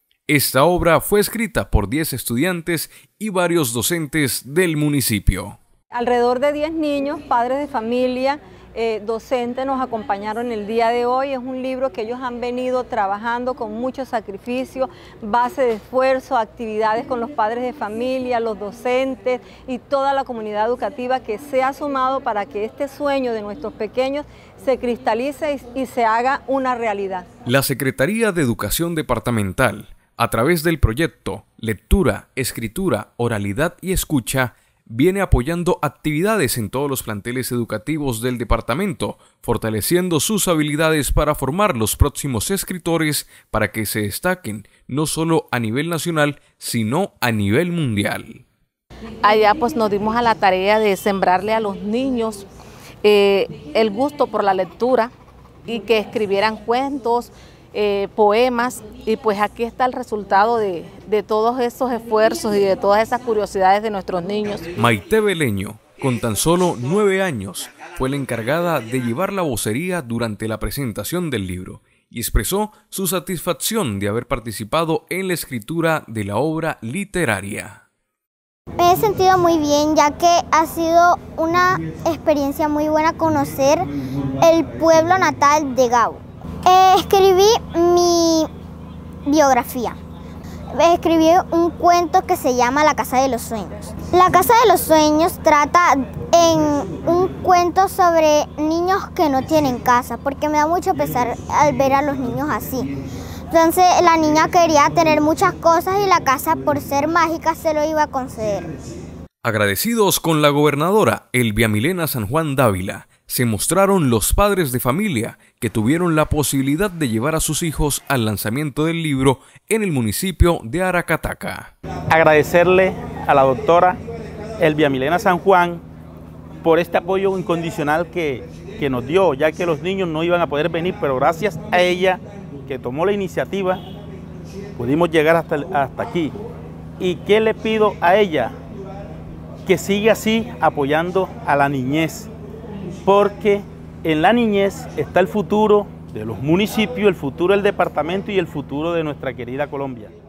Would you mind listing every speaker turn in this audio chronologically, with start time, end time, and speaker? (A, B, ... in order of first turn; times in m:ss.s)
0:00.3-0:05.6 A
0:05.9-0:27.3 B
0:27.4-0:48.4 A
0:49.2-0:52.5 C
0:53.0-0:55.1 C
0:55.7-1:04.7 C
1:04.8-1:17.8 A
1:18.8-1:23.9 D
1:24.4-1:28.5 D
1:29.3-1:30.0 D
1:30.7-1:42.9 D
1:43.5-1:48.7 D
1:49.4-2:01.7 A
2:02.1-2:04.0 E
2:04.6-2:05.8 E
2:06.6-2:13.8 E
2:14.8-2:16.3 E
2:17.0-2:18.6 E
2:19.7-2:22.3 E
2:23.1-2:30.1 E